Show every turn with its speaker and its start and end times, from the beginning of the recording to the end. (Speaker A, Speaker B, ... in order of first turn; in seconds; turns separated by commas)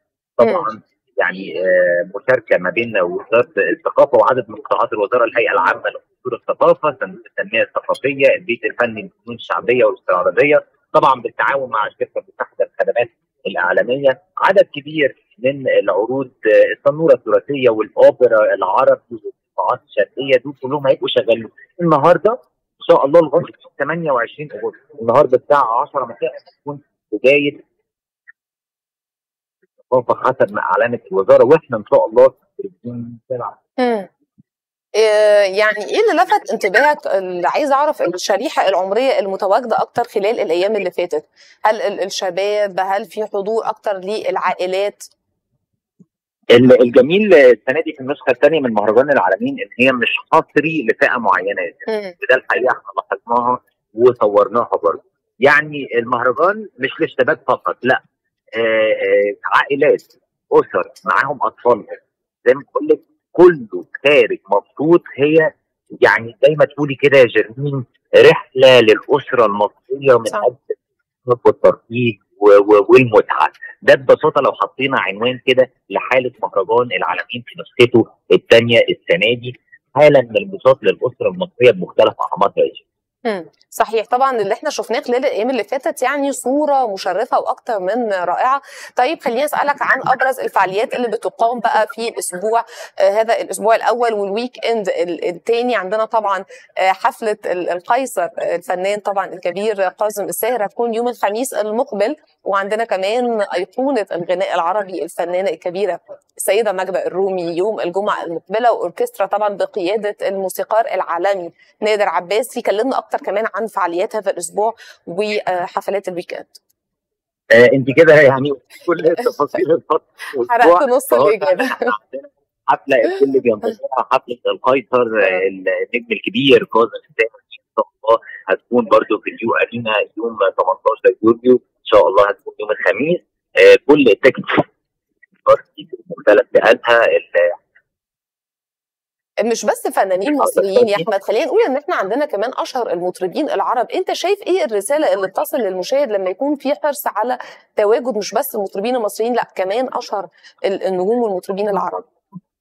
Speaker A: 0.4-27.6, Speaker A: 29.9-33.6, Speaker B: 33.8-34.1, Speaker B: 35.0-45.1, Speaker A: 46.5-58.0, Speaker B: 51.9-52.1, Speaker A: 58.5-65.5, Speaker A: 66.0-82.8, Speaker B: 83.2-116.6, Speaker A: 117.5-134.7, Speaker B: 120.5-121.9, Speaker A: 135.4-137.6, Speaker B: 139.4-152.1, Speaker A: 140.4-141.0